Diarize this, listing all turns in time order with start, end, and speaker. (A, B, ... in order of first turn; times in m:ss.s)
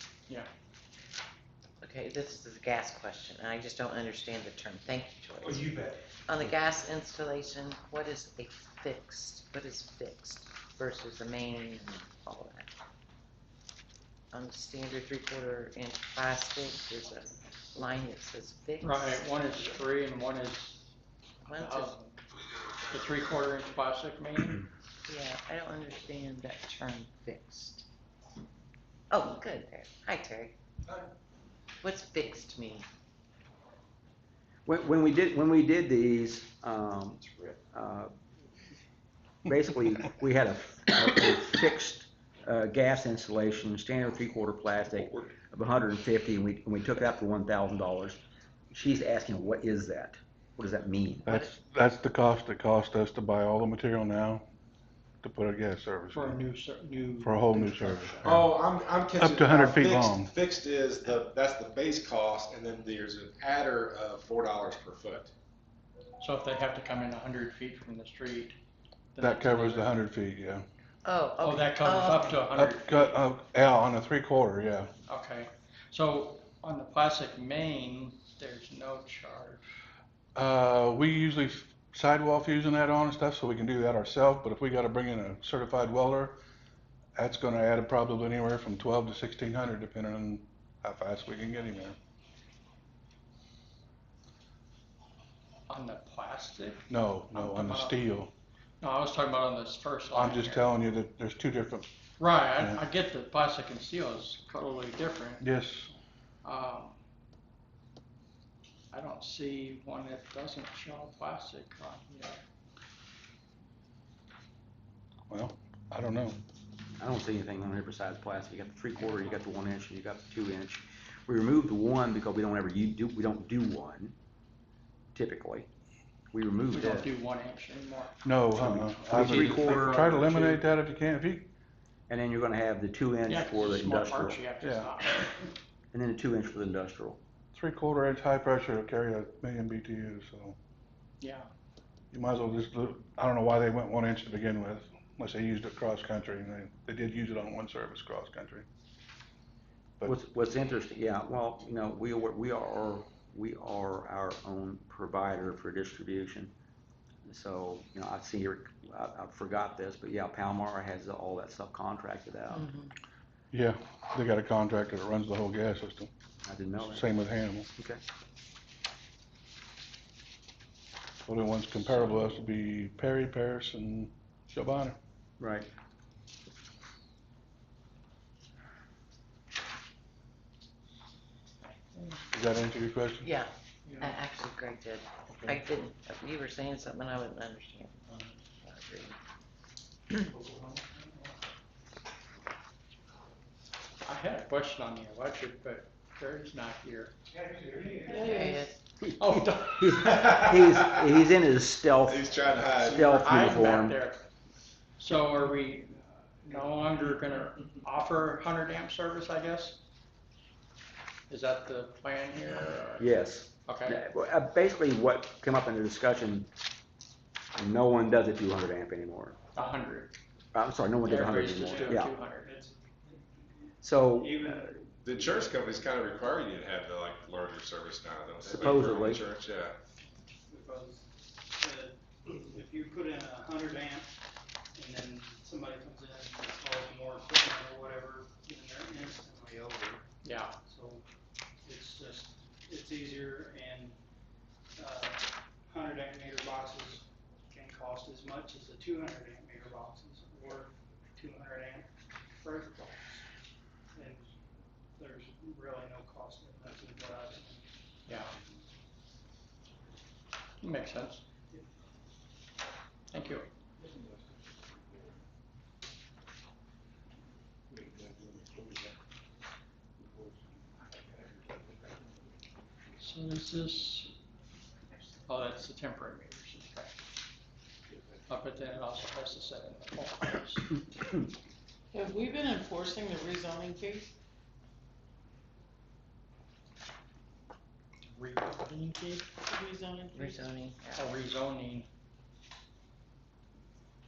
0:01.8-0:12.7 A
0:14.3-0:19.2 A
0:18.8-0:20.8 B
0:21.4-0:22.0 A
0:21.5-0:22.2 B
0:22.9-0:24.6 B
0:25.1-0:27.9 A
0:29.1-0:30.6 A
0:31.8-0:32.9 A
0:34.6-0:38.1 C
0:39.4-0:48.2 C
0:48.7-0:51.3 C
0:51.3-0:54.4 D
0:55.2-0:56.4 D
0:56.1-0:58.4 B
0:57.2-0:58.5 D
0:58.2-1:05.3 E
0:59.2-1:00.3 D
1:06.2-1:08.6 B
1:09.1-1:10.0 B
1:09.2-1:10.6 D
1:11.0-1:12.4 A
1:11.4-1:13.2 B
1:12.5-1:14.9 D
1:15.0-1:19.6 B
1:20.3-1:26.4 D
1:27.2-1:32.0 D
1:35.7-1:38.0 B
1:36.9-1:38.3 D
1:38.8-1:40.7 B
1:40.1-1:41.9 D
1:42.2-1:45.4 B
1:42.5-1:42.8 D
1:45.4-1:45.9 D
1:46.4-1:47.0 B
1:48.9-1:52.4 B
1:55.3-1:56.4 D
1:57.0-2:04.1 C
2:05.1-2:05.7 C
2:06.3-2:07.1 C
2:06.7-2:08.2 B
2:08.2-2:11.5 D
2:08.5-2:10.3 C
2:09.1-2:10.6 B
2:12.1-2:14.4 C
2:13.3-2:15.4 B
2:14.6-2:14.9 D
2:15.9-2:17.2 C
2:17.5-2:20.6 D
2:21.2-2:21.5 B
2:22.1-2:28.6 D
2:30.0-2:36.5 C
2:37.2-2:42.7 C
2:42.5-2:42.9 A
2:43.5-2:46.1 D
2:46.4-2:47.1 C
2:46.8-2:47.7 D
2:47.8-2:48.0 C
2:51.2-2:55.0 D
2:55.4-2:55.7 C
3:01.9-3:02.2 B
3:02.3-3:03.3 D
3:03.2-3:09.2 A
3:14.0-3:17.1 B
3:18.1-3:18.7 A
3:18.1-3:18.7 F
3:19.0-3:20.1 B
3:19.7-3:24.0 C
3:20.2-3:21.0 E
3:22.0-3:23.6 E
3:23.2-3:24.3 B
3:25.0-3:29.8 B
3:31.3-3:33.1 B
3:33.0-3:36.5 C
3:33.6-3:34.0 B
3:37.5-3:39.4 C
3:39.5-3:40.1 B
3:40.5-3:42.1 C
3:41.0-3:42.5 B
3:41.8-3:45.4 G
3:43.8-3:44.6 C
3:45.0-3:49.8 E
3:48.4-3:49.2 C
3:50.5-3:54.1 G
3:54.7-4:00.0 G
4:00.2-4:00.5 B
4:00.6-4:01.0 G
4:01.6-4:04.0 G
4:04.8-4:13.2 G
4:13.9-4:14.3 G
4:15.0-4:17.7 G
4:18.1-4:18.3 B
4:20.6-4:21.2 B
4:23.1-4:23.5 B
4:33.0-4:34.1 B
4:35.2-4:37.0 B
4:38.3-4:40.8 B
4:41.9-4:44.1 F
4:48.1-4:49.3 B
4:49.4-4:50.5 F
4:50.1-4:51.1 A
4:50.9-4:51.9 B